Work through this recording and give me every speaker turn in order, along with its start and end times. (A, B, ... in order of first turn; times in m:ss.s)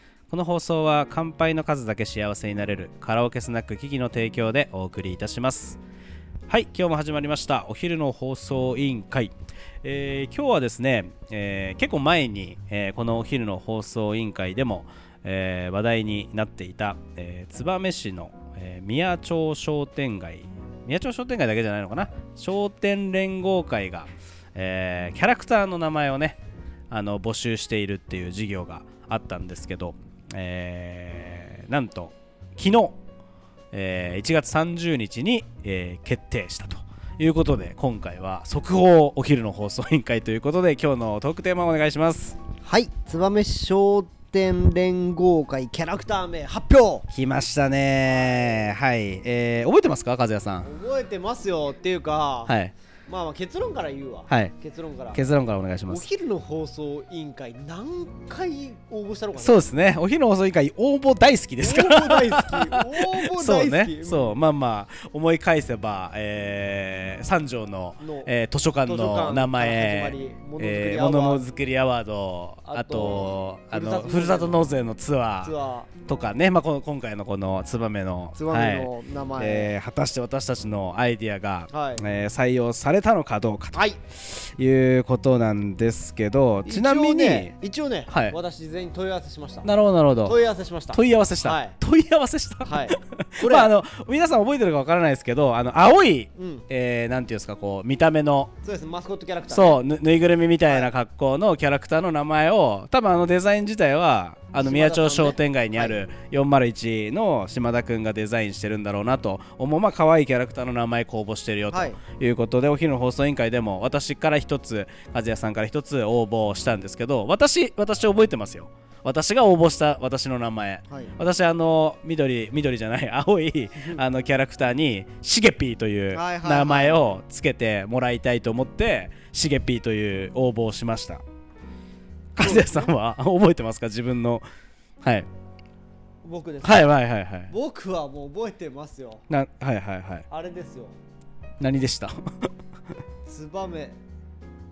0:00.3-0:05.8 A
0:06.5-0:26.4 A
0:26.9-0:33.0 A
0:33.7-0:42.4 A
0:42.6-0:47.1 B
0:47.1-0:50.7 A
0:48.1-0:48.7 B
0:50.6-0:52.5 B
0:52.5-0:52.7 A
0:53.0-0:55.2 B
0:54.3-0:54.5 A
0:55.1-0:56.0 A
0:55.9-0:59.7 B
0:59.4-1:15.5 A
1:01.6-1:04.4 B
1:08.0-1:08.3 B
1:08.8-1:11.4 B
1:12.6-1:14.6 B
1:15.4-1:15.9 B
1:16.1-1:27.5 A
1:18.3-1:19.7 B
1:21.7-1:22.0 B
1:26.6-1:29.7 B
1:28.1-1:28.3 A
1:29.6-1:30.4 A
1:30.2-1:31.8 B
1:30.9-1:38.5 A
1:32.6-1:33.7 B
1:36.4-1:36.6 B
1:38.6-1:39.8 B
1:39.5-2:11.2 A
1:40.6-1:40.9 B
1:44.6-1:46.0 B
1:51.7-1:52.0 B
2:06.1-2:07.0 B
2:12.3-2:14.4 A
2:12.4-2:12.9 B
2:15.0-2:15.3 A
2:16.2-2:16.9 B
2:16.6-2:17.5 A
2:17.5-2:19.2 B
2:19.3-2:20.2 A
2:20.3-2:20.9 B
2:21.6-2:22.1 A
2:23.2-2:24.0 B